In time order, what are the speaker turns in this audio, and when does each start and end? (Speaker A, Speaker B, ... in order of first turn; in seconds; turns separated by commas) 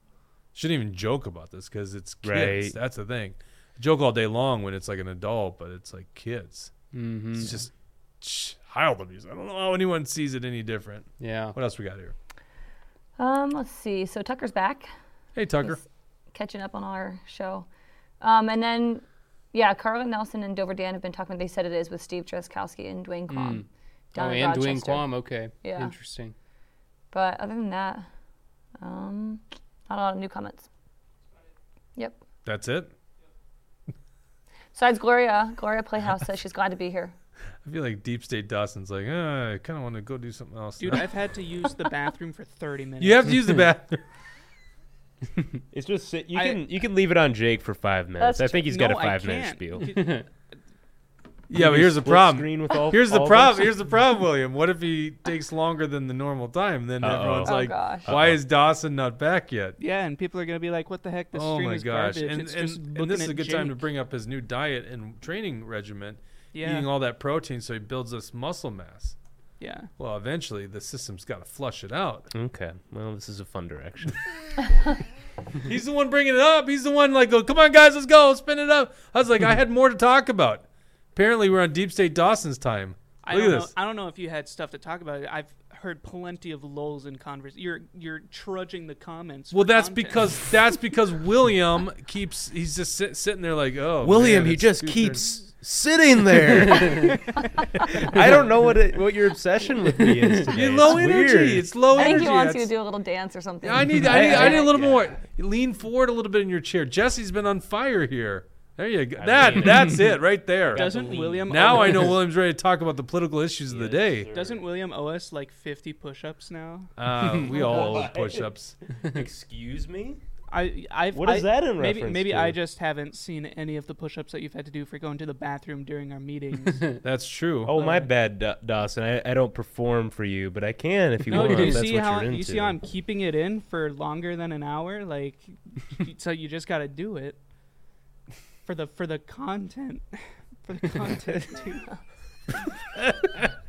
Speaker A: 0.5-6.7, Speaker B: 2.2-2.8, Speaker C: 6.9-7.6, Speaker A: 7.3-12.1, Speaker C: 11.2-11.6, Speaker D: 13.2-14.9, Speaker A: 15.3-15.8, Speaker D: 16.3-17.7, Speaker D: 18.2-25.9, Speaker C: 23.3-23.6, Speaker C: 24.1-26.3, Speaker D: 27.1-28.0, Speaker D: 28.8-30.7, Speaker A: 32.4-32.9, Speaker D: 34.7-37.1, Speaker A: 37.6-41.1, Speaker E: 40.8-43.3, Speaker A: 43.0-44.0, Speaker B: 45.7-50.0, Speaker E: 46.3-46.6, Speaker D: 48.2-48.6, Speaker E: 48.6-50.2, Speaker C: 49.9-50.2, Speaker A: 51.5-59.8, Speaker B: 51.5-53.7, Speaker B: 57.0-58.4, Speaker D: 57.4-58.1, Speaker E: 59.8-63.8, Speaker A: 61.3-69.2, Speaker E: 66.5-66.9, Speaker E: 69.6-69.9, Speaker A: 70.0-72.3, Speaker B: 72.3-74.2, Speaker A: 75.6-83.7, Speaker E: 83.2-90.7, Speaker A: 89.5-95.2, Speaker B: 94.0-97.2, Speaker B: 97.8-102.3, Speaker A: 100.5-102.7, Speaker D: 101.9-104.7, Speaker A: 103.6-111.0, Speaker B: 103.9-105.2, Speaker B: 109.2-110.1, Speaker B: 110.7-112.1, Speaker E: 110.7-112.2, Speaker A: 111.5-114.3, Speaker B: 113.7-114.6, Speaker E: 114.3-118.0, Speaker A: 117.0-118.8, Speaker B: 117.3-120.2, Speaker E: 120.5-127.0, Speaker B: 121.1-122.6, Speaker A: 127.0-127.7, Speaker B: 127.7-132.8, Speaker E: 127.7-128.1, Speaker E: 131.3-137.4, Speaker C: 131.3-131.8, Speaker E: 138.6-142.0, Speaker A: 143.0-143.4